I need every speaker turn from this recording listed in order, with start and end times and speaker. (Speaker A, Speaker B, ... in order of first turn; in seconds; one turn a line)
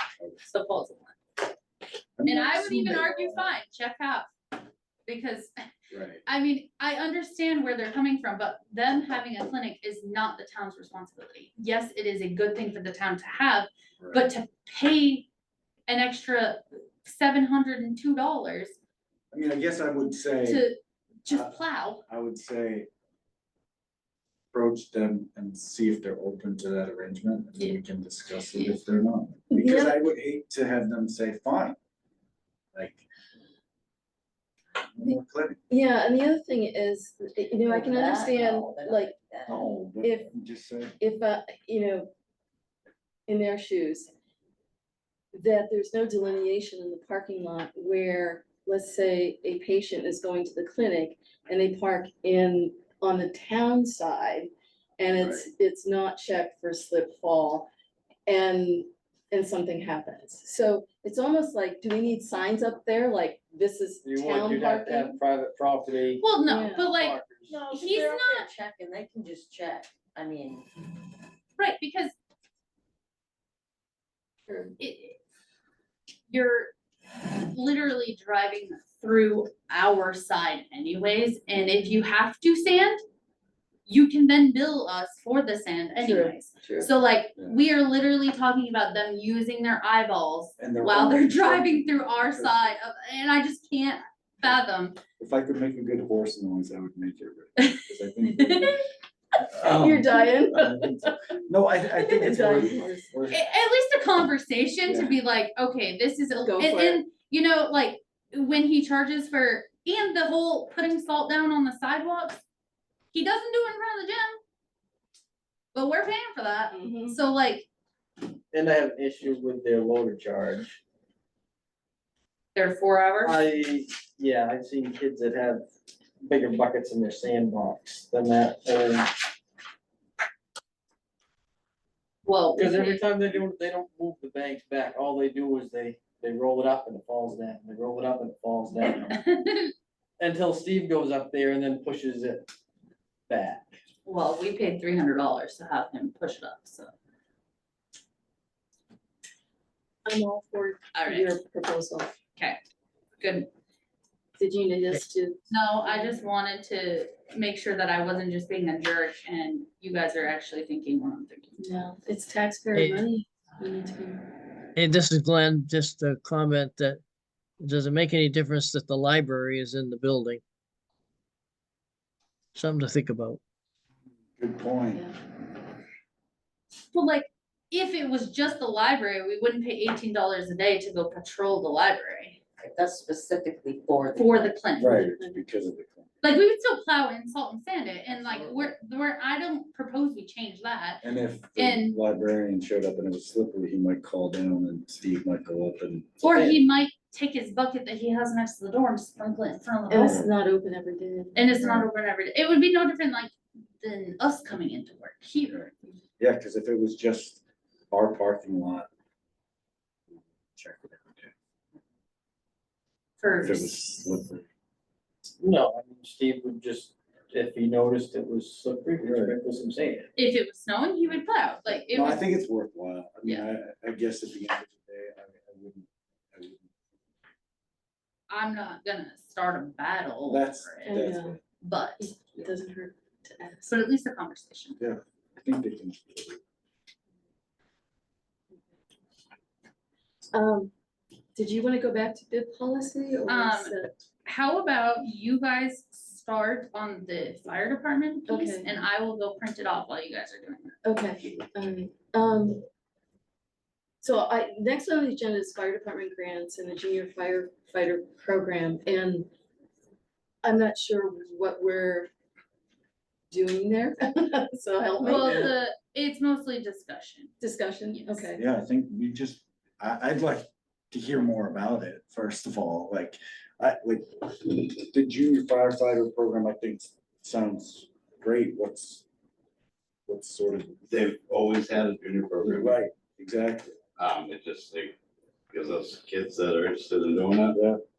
Speaker A: 0.5-1.2
Speaker B: 2.2-3.4
Speaker A: 2.2-4.3
Speaker A: 5.1-5.5
Speaker B: 5.9-6.2
Speaker A: 6.3-15.3
Speaker A: 15.9-18.8
Speaker B: 19.3-20.7
Speaker A: 20.4-22.0
Speaker B: 21.3-22.9
Speaker B: 24.5-31.8
Speaker C: 29.5-30.0
Speaker B: 32.7-33.0
Speaker B: 34.9-35.6
Speaker C: 35.7-39.1
Speaker D: 37.6-39.7
Speaker B: 39.5-41.0
Speaker C: 40.0-40.3
Speaker C: 41.0-42.1
Speaker C: 43.3-44.1
Speaker C: 45.3-57.7
Speaker C: 58.3-65.2
Speaker E: 64.0-67.6
Speaker A: 66.2-68.5
Speaker C: 66.5-66.9
Speaker D: 67.5-70.7
Speaker A: 71.6-72.2
Speaker C: 74.5-74.7
Speaker A: 74.8-75.2
Speaker A: 76.3-76.7
Speaker A: 77.3-83.0
Speaker A: 83.9-95.0
Speaker C: 86.0-86.9
Speaker B: 90.6-92.8
Speaker B: 95.2-98.8
Speaker A: 97.6-98.8
Speaker B: 99.5-103.4
Speaker C: 99.6-100.9
Speaker C: 102.0-103.1
Speaker A: 103.3-112.4
Speaker B: 104.9-105.2
Speaker C: 106.4-107.0
Speaker A: 113.1-114.4
Speaker A: 115.7-117.7
Speaker C: 116.7-117.2
Speaker E: 118.5-120.8
Speaker A: 122.5-123.4
Speaker E: 123.2-125.7
Speaker E: 126.2-129.1
Speaker A: 132.2-133.0
Speaker E: 132.6-139.2
Speaker A: 138.8-139.7
Speaker E: 140.2-142.5
Speaker E: 143.3-143.8
Speaker A: 144.1-146.9
Speaker C: 150.1-152.1
Speaker A: 150.9-151.4
Speaker A: 153.2-153.5
Speaker C: 154.4-155.4
Speaker A: 155.5-161.6
Speaker C: 161.6-164.3
Speaker F: 162.8-163.1
Speaker F: 164.8-167.0
Speaker F: 167.6-170.4
Speaker F: 172.6-173.4
Speaker B: 174.4-175.1
Speaker A: 176.9-182.4
Speaker D: 182.6-184.6
Speaker A: 184.1-185.1
Speaker B: 184.8-186.1
Speaker C: 184.8-185.4
Speaker A: 186.2-191.0
Speaker D: 188.1-188.7
Speaker B: 191.0-196.2
Speaker A: 191.6-192.0
Speaker A: 196.2-200.3
Speaker E: 196.3-196.6
Speaker C: 199.9-201.4
Speaker A: 201.3-205.7
Speaker B: 201.6-201.9
Speaker B: 205.5-208.9
Speaker B: 210.6-211.3
Speaker A: 213.2-213.7
Speaker B: 213.4-214.5
Speaker E: 215.4-220.1
Speaker B: 219.0-219.3
Speaker A: 220.2-222.2
Speaker B: 221.9-226.7
Speaker A: 228.3-231.0
Speaker B: 230.3-231.4
Speaker C: 230.8-231.4
Speaker A: 231.6-232.1
Speaker C: 232.0-233.7
Speaker A: 233.6-234.8
Speaker B: 234.8-236.4
Speaker C: 240.3-240.7
Speaker C: 241.3-243.9
Speaker A: 243.3-243.7
Speaker A: 244.2-250.8
Speaker C: 248.3-248.7
Speaker C: 250.8-252.6
Speaker C: 254.0-259.3
Speaker C: 260.4-262.1
Speaker C: 263.3-265.5
Speaker A: 265.0-267.4
Speaker C: 267.4-268.4
Speaker A: 267.9-268.4
Speaker B: 268.4-279.1
Speaker B: 280.1-280.9
Speaker G: 280.9-282.8
Speaker B: 282.5-283.8
Speaker G: 284.0-284.9
Speaker G: 285.5-287.6
Speaker B: 287.5-287.8